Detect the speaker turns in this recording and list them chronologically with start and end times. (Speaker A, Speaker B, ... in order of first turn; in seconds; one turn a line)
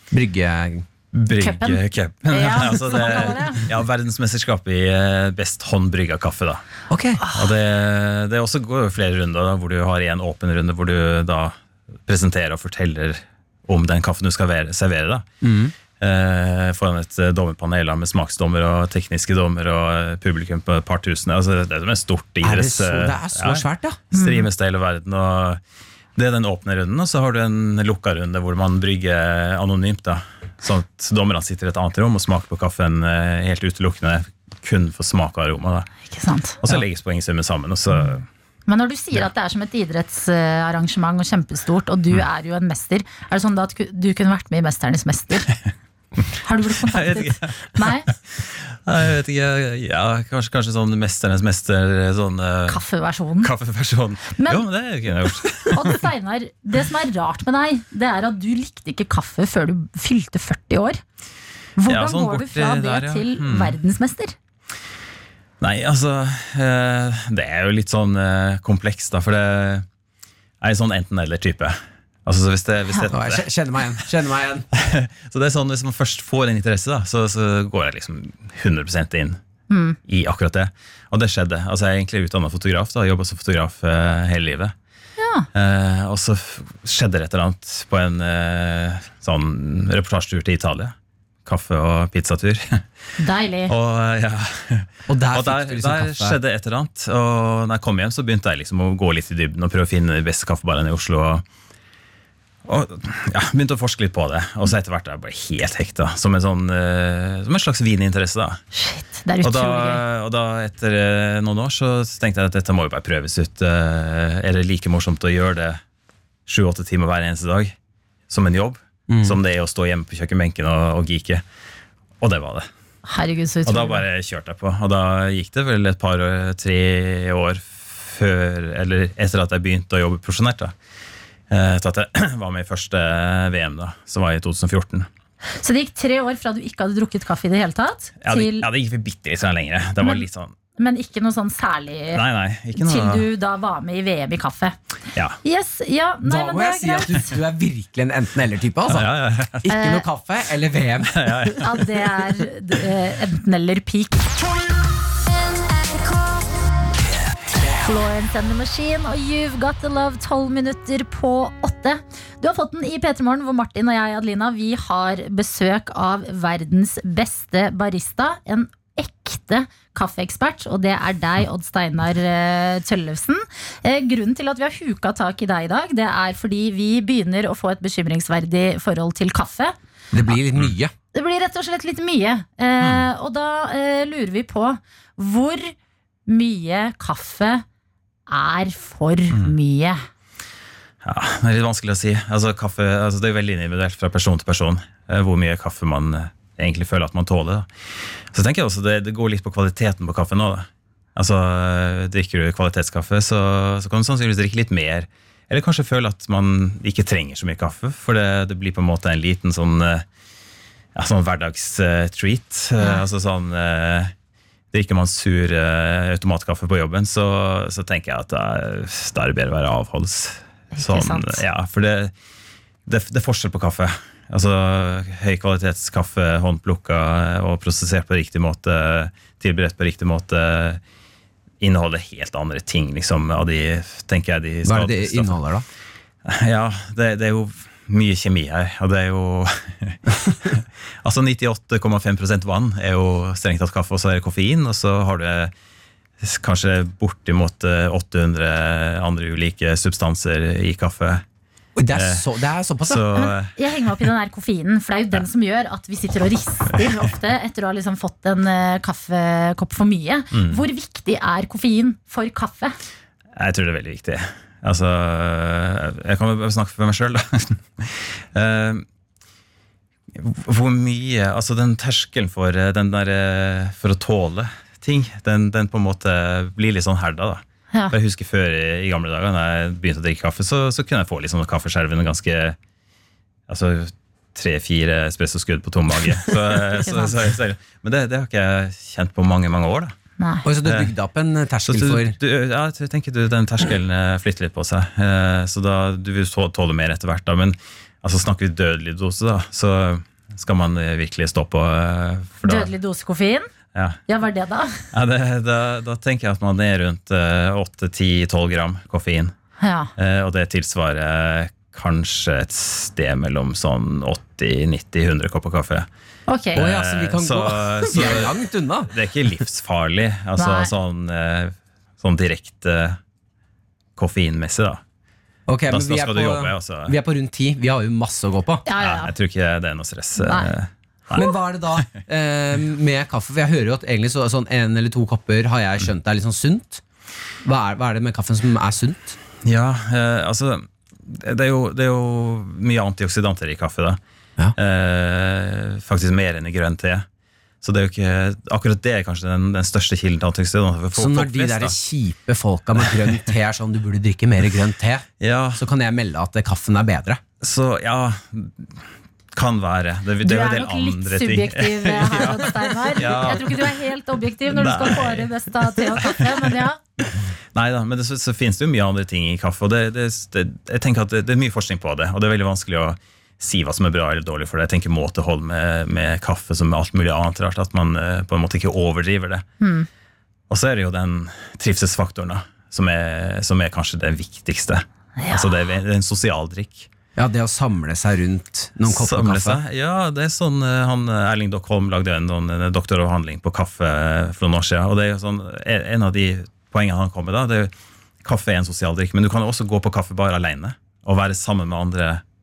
Speaker A: 0.1-0.9
Speaker B: 1.1-6.6
Speaker C: 1.4-3.6
Speaker A: 6.9-7.2
Speaker C: 7.2-7.5
Speaker B: 7.3-11.5
Speaker B: 12.1-15.3
Speaker A: 15.4-15.7
Speaker B: 16.0-25.6
Speaker A: 22.4-24.0
Speaker C: 24.1-24.5
Speaker B: 26.1-35.9
Speaker C: 36.1-36.6
Speaker B: 36.6-38.2
Speaker C: 38.7-45.6
Speaker C: 46.4-48.1
Speaker B: 46.8-52.8
Speaker C: 52.7-53.5
Speaker B: 53.4-56.0
Speaker C: 54.4-54.7
Speaker C: 55.7-61.0
Speaker C: 61.8-64.3
Speaker B: 61.9-63.8
Speaker B: 65.6-69.9
Speaker B: 70.6-73.5
Speaker A: 73.1-74.7
Speaker B: 74.7-79.4
Speaker C: 79.7-80.0
Speaker B: 80.1-84.7
Speaker C: 85.2-85.5
Speaker B: 85.5-90.9
Speaker B: 91.5-92.8
Speaker C: 93.2-93.7
Speaker B: 93.7-101.4
Speaker A: 95.1-96.4
Speaker B: 102.7-108.6
Speaker C: 108.7-110.0
Speaker B: 109.4-115.8
Speaker B: 116.5-117.8
Speaker B: 118.3-121.4
Speaker A: 119.1-119.4
Speaker B: 122.2-122.7
Speaker C: 123.1-124.0
Speaker B: 123.7-130.7
Speaker B: 131.5-135.1
Speaker C: 135.6-138.7
Speaker B: 138.2-140.5
Speaker C: 140.8-142.2
Speaker B: 142.1-143.3
Speaker C: 142.7-144.8
Speaker C: 145.4-147.3
Speaker A: 146.2-151.6
Speaker B: 148.9-149.7
Speaker C: 149.7-150.1
Speaker B: 151.1-151.8
Speaker C: 151.6-154.2
Speaker C: 157.8-179.8
Speaker A: 180.1-180.9
Speaker C: 181.1-185.8
Speaker B: 182.8-183.1
Speaker C: 186.3-187.7
Speaker C: 188.3-190.0
Speaker B: 191.0-210.1
Speaker B: 210.9-214.1
Speaker C: 212.8-213.1
Speaker B: 214.7-222.1
Speaker C: 220.8-221.4
Speaker B: 222.9-230.8
Speaker B: 231.6-235.4
Speaker A: 234.7-235.7
Speaker B: 236.3-245.5
Speaker B: 246.2-251.2
Speaker A: 251.8-253.1
Speaker B: 251.9-252.3
Speaker B: 252.9-254.1
Speaker C: 253.2-262.8
Speaker B: 260.3-260.6
Speaker B: 263.4-268.9
Speaker B: 270.1-282.6
Speaker B: 283.5-289.9
Speaker C: 286.8-287.3
Speaker C: 290.2-290.5
Speaker A: 290.4-292.2
Speaker B: 290.6-290.9
Speaker B: 291.6-302.7
Speaker C: 302.4-303.4
Speaker C: 304.1-304.8
Speaker B: 304.9-309.3
Speaker C: 309.6-309.9
Speaker B: 310.0-315.9
Speaker C: 316.3-316.7
Speaker B: 316.6-323.0
Speaker A: 316.6-318.9
Speaker C: 320.4-320.7
Speaker B: 324.0-324.8
Speaker A: 325.5-328.6
Speaker B: 325.7-326.9
Speaker C: 328.7-329.1
Speaker B: 328.8-331.3
Speaker C: 330.2-330.5
Speaker A: 331.1-336.8
Speaker A: 337.4-339.2
Speaker B: 339.4-344.0
Speaker B: 344.6-347.1
Speaker B: 347.6-351.8
Speaker A: 350.9-357.2
Speaker B: 352.8-353.3
Speaker B: 355.2-355.6
Speaker B: 357.4-358.7
Speaker B: 359.3-363.8
Speaker C: 360.2-366.8
Speaker B: 364.5-379.4
Speaker C: 379.6-379.9
Speaker B: 380.5-386.9
Speaker C: 385.2-385.5
Speaker A: 387.2-389.6
Speaker B: 388.9-397.7
Speaker B: 398.2-402.2